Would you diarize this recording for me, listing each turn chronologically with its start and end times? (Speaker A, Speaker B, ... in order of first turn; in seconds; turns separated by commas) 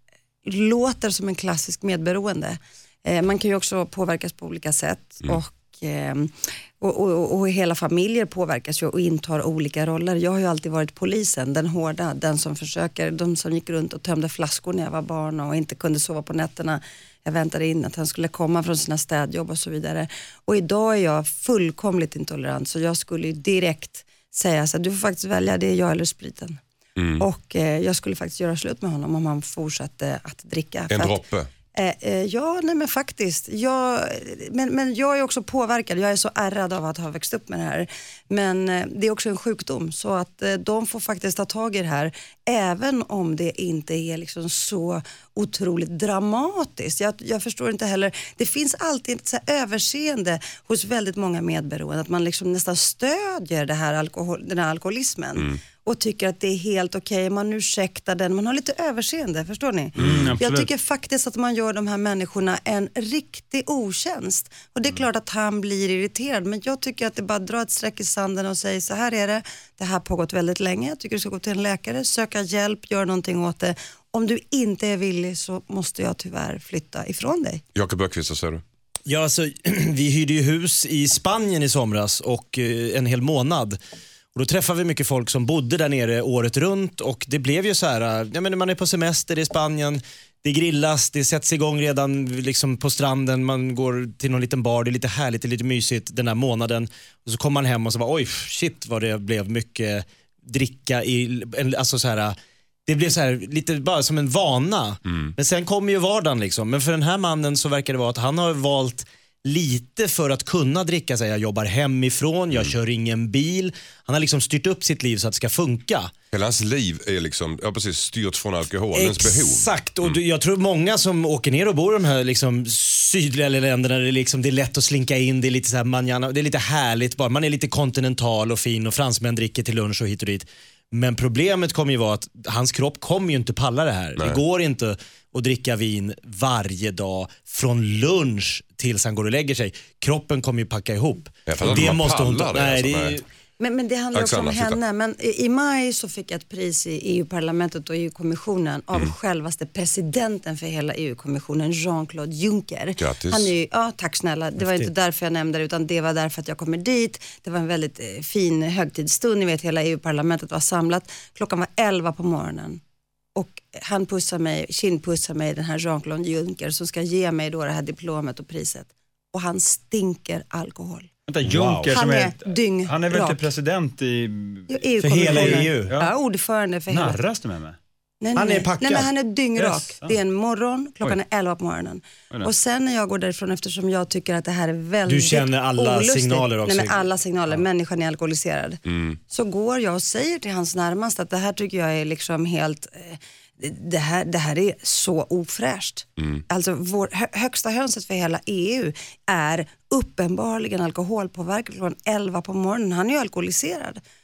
Speaker A: 0.4-26.6, Speaker B: 26.9-27.3, Speaker A: 27.2-31.2, Speaker B: 30.9-31.5, Speaker A: 31.7-77.6, Speaker B: 60.0-60.4, Speaker C: 60.0-60.7, Speaker B: 77.7-78.6, Speaker D: 79.0-83.8, Speaker D: 84.3-102.3, Speaker D: 102.9-116.1, Speaker B: 105.0-105.3, Speaker B: 116.3-120.2, Speaker D: 118.9-143.2, Speaker B: 134.2-134.4, Speaker B: 141.4-143.2, Speaker A: 143.6-162.8, Speaker B: 144.1-144.8, Speaker B: 153.0-153.5, Speaker D: 154.6-154.9, Speaker A: 163.3-171.1, Speaker C: 171.3-176.1, Speaker D: 171.4-171.9, Speaker A: 171.9-173.4, Speaker A: 174.7-177.2, Speaker D: 175.0-175.9, Speaker C: 176.9-177.8, Speaker A: 178.2-204.0, Speaker D: 178.3-179.1, Speaker C: 179.6-180.2, Speaker D: 185.1-187.1, Speaker B: 188.8-189.2, Speaker B: 196.2-196.4